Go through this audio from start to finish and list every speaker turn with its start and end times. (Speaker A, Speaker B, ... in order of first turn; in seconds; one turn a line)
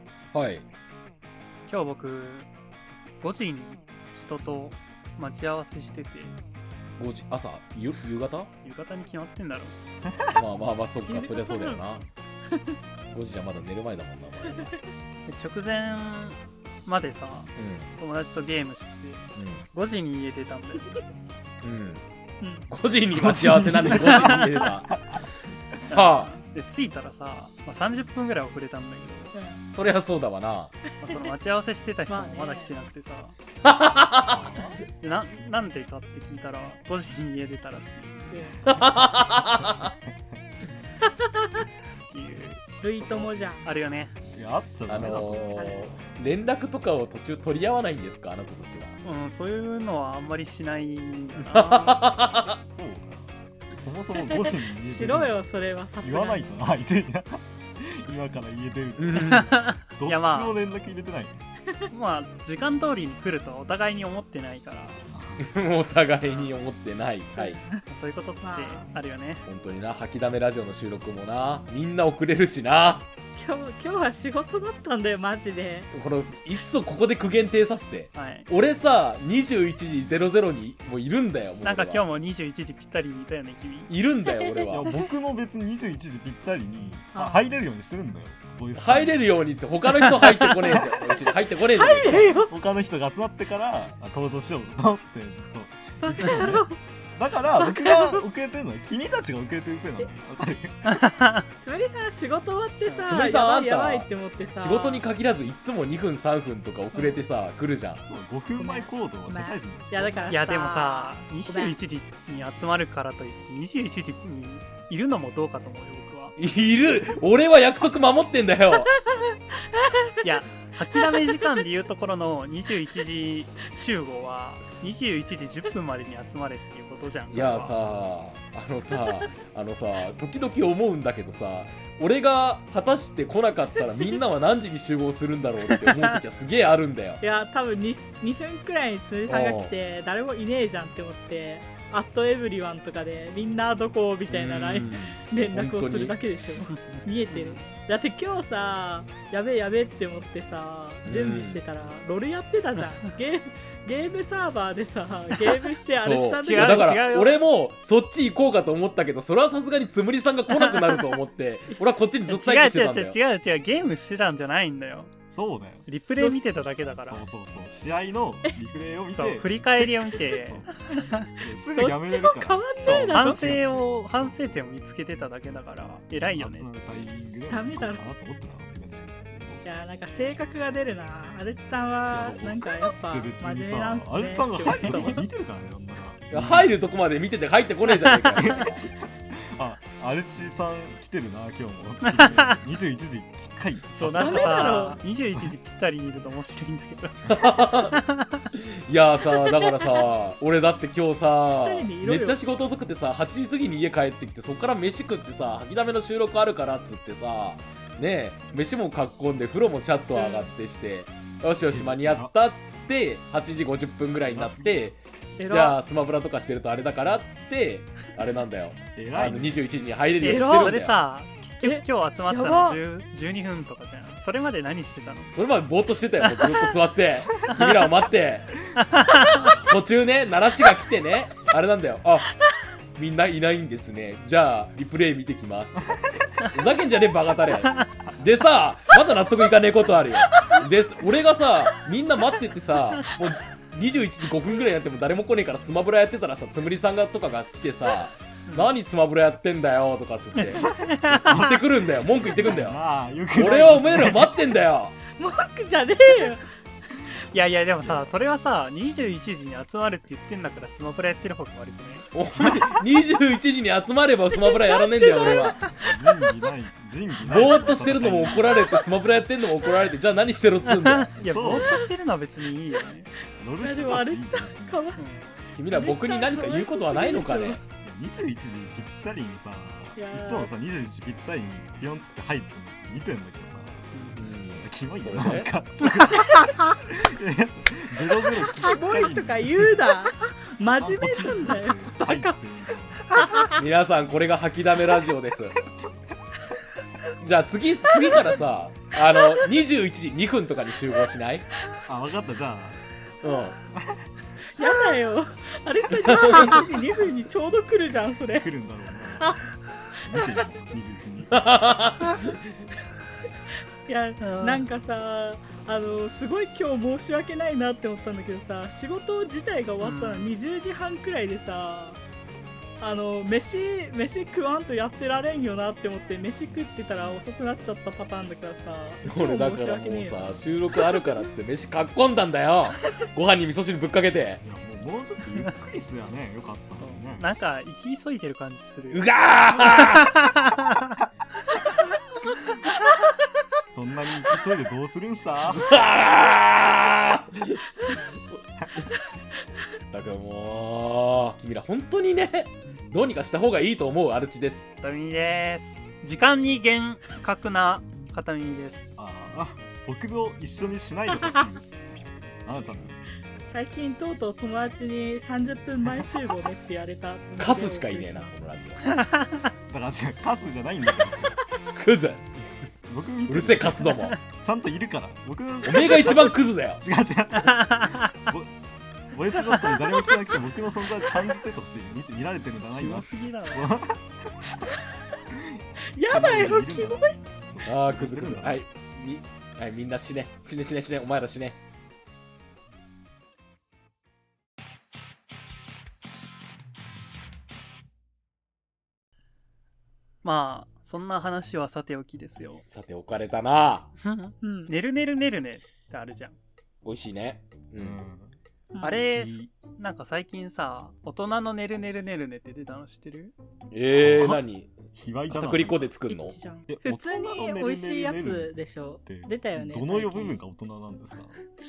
Speaker A: 0.3-0.6
Speaker B: 1.7-2.5
Speaker B: 3.2-6.3
Speaker A: 7.0-8.5
Speaker B: 8.6-9.7
Speaker A: 10.3-12.1
Speaker C: 11.1-11.8
Speaker C: 12.5-12.8
Speaker A: 13.1-14.7
Speaker B: 15.3-21.0
Speaker A: 17.6-17.9
Speaker A: 19.4-19.6
Speaker A: 21.6-22.0
Speaker C: 22.4-22.7
Speaker A: 22.7-25.2
Speaker D: 23.1-25.2
Speaker B: 23.9-24.7
Speaker B: 25.9-29.3
Speaker A: 25.9-26.3
Speaker C: 29.3-29.6
Speaker A: 29.7-30.7
Speaker B: 31.0-33.3
Speaker C: 32.1-32.7
Speaker A: 33.6-34.5
Speaker D: 34.2-34.8
Speaker B: 35.0-38.5
Speaker C: 38.3-38.8
Speaker A: 38.6-39.9
Speaker C: 41.1-41.5
Speaker B: 42.1-44.2
Speaker C: 42.8-43.6
Speaker D: 44.3-45.8
Speaker A: 44.9-49.0
Speaker C: 45.5-45.8
Speaker B: 49.0-52.0
Speaker A: 51.5-52.6
Speaker D: 52.6-55.3
Speaker C: 54.1-56.7
Speaker D: 56.0-61.4
Speaker A: 59.0-59.5
Speaker B: 59.1-60.6
Speaker B: 61.9-65.0
Speaker D: 65.1-65.5
Speaker A: 65.4-67.6
Speaker B: 66.2-66.5
Speaker C: 67.4-67.8
Speaker B: 67.9-69.4
Speaker C: 68.4-68.9
Speaker A: 69.5-73.1
Speaker C: 73.3-75.9
Speaker A: 75.9-82.0
Speaker B: 78.1-78.5
Speaker B: 81.6-83.9
Speaker A: 83.9-84.9
Speaker C: 84.3-84.7
Speaker D: 84.7-89.3
Speaker C: 87.1-87.6
Speaker A: 88.8-92.3
Speaker C: 90.0-90.9
Speaker D: 90.7-91.0
Speaker C: 91.7-92.5
Speaker D: 92.4-100.8
Speaker C: 96.0-96.8
Speaker C: 97.6-98.2
Speaker B: 100.8-101.5
Speaker C: 101.6-105.0
Speaker B: 102.9-103.3
Speaker A: 103.1-108.0
Speaker C: 106.9-107.2
Speaker D: 108.0-110.3
Speaker C: 108.6-111.8
Speaker B: 110.3-116.4
Speaker A: 116.4-118.9
Speaker C: 119.8-120.2
Speaker B: 120.2-127.7
Speaker A: 127.3-137.2
Speaker B: 135.7-136.2
Speaker C: 137.2-157.1
Speaker A: 139.3-139.7
Speaker A: 144.3-146.2
Speaker B: 146.7-147.7
Speaker A: 151.0-151.6
Speaker A: 155.9-163.2
Speaker B: 156.4-157.4
Speaker B: 160.6-161.0
Speaker B: 162.3-165.1
Speaker D: 165.3-165.8
Speaker B: 165.8-167.2
Speaker D: 167.1-170.7
Speaker B: 169.1-171.3
Speaker D: 171.3-174.5
Speaker C: 171.7-173.6
Speaker B: 173.0-176.7
Speaker D: 176.3-179.6
Speaker C: 177.5-178.0
Speaker C: 179.6-185.2
Speaker D: 182.1-186.9
Speaker B: 184.7-185.0
Speaker A: 186.3-188.7
Speaker D: 188.3-194.9
Speaker B: 192.0-192.5
Speaker B: 193.9-198.4
Speaker C: 194.2-195.0
Speaker A: 197.2-198.0
Speaker A: 198.5-214.9
Speaker C: 199.4-199.9
Speaker C: 201.5-202.4
Speaker C: 210.1-210.5
Speaker D: 211.7-212.3
Speaker D: 214.2-214.9
Speaker C: 215.4-215.8
Speaker A: 215.4-221.0
Speaker D: 218.9-219.6
Speaker B: 220.2-225.3
Speaker C: 220.2-220.8
Speaker C: 221.6-222.8
Speaker A: 225.3-232.4
Speaker C: 226.4-226.7
Speaker B: 228.7-229.5
Speaker C: 229.2-229.6
Speaker A: 232.9-252.8
Speaker B: 250.3-251.3
Speaker D: 250.5-254.3
Speaker A: 253.3-254.9
Speaker C: 255.1-256.4
Speaker B: 257.3-262.1
Speaker D: 257.8-258.1
Speaker A: 262.1-265.6
Speaker C: 264.4-265.7
Speaker D: 265.7-268.6
Speaker A: 267.2-271.2
Speaker B: 270.7-273.1
Speaker D: 271.2-271.8
Speaker D: 273.4-274.8
Speaker C: 273.6-275.0
Speaker B: 274.9-275.3
Speaker A: 275.5-277.6
Speaker C: 275.7-277.6
Speaker D: 277.8-283.9
Speaker C: 279.9-280.5
Speaker B: 283.9-284.3
Speaker A: 284.2-285.5
Speaker D: 284.5-290.0
Speaker C: 286.1-286.6
Speaker C: 288.3-292.4
Speaker D: 290.7-293.5
Speaker C: 293.1-293.6
Speaker A: 293.4-295.6
Speaker D: 295.6-296.1
Speaker A: 297.2-301.5
Speaker C: 298.0-298.4
Speaker D: 301.8-302.8
Speaker A: 303.2-303.6
Speaker D: 303.7-304.1
Speaker C: 304.6-308.5
Speaker A: 306.1-306.6
Speaker D: 308.4-309.4
Speaker C: 309.2-309.4
Speaker D: 309.9-311.5
Speaker C: 310.1-310.4
Speaker A: 311.3-312.4
Speaker C: 313.8-322.0
Speaker B: 314.2-314.6
Speaker B: 319.8-320.4
Speaker C: 322.8-331.0
Speaker A: 329.0-334.4
Speaker D: 334.4-337.3
Speaker B: 336.7-341.0
Speaker A: 338.9-340.2
Speaker D: 343.7-345.9
Speaker A: 345.5-347.6
Speaker A: 349.9-354.7
Speaker B: 354.8-358.9
Speaker D: 358.9-363.0
Speaker C: 363.5-368.4
Speaker A: 367.4-368.8
Speaker B: 368.8-369.5
Speaker D: 369.7-371.4
Speaker A: 371.7-372.4
Speaker D: 372.9-378.6
Speaker A: 373.3-374.2
Speaker A: 375.6-376.8
Speaker B: 377.4-378.1
Speaker D: 379.1-384.7
Speaker B: 382.7-383.7
Speaker D: 385.3-388.6
Speaker C: 385.9-387.1
Speaker A: 387.6-391.6
Speaker B: 400.2-402.6
Speaker A: 402.7-403.9
Speaker B: 404.0-406.4
Speaker C: 404.4-404.7
Speaker A: 406.8-408.0
Speaker D: 407.8-408.4
Speaker C: 408.7-409.1
Speaker B: 408.8-413.3
Speaker D: 409.0-409.5
Speaker A: 413.7-414.8
Speaker D: 413.9-415.9
Speaker A: 415.3-416.4
Speaker C: 416.1-420.4
Speaker D: 416.7-418.5
Speaker D: 419.0-421.4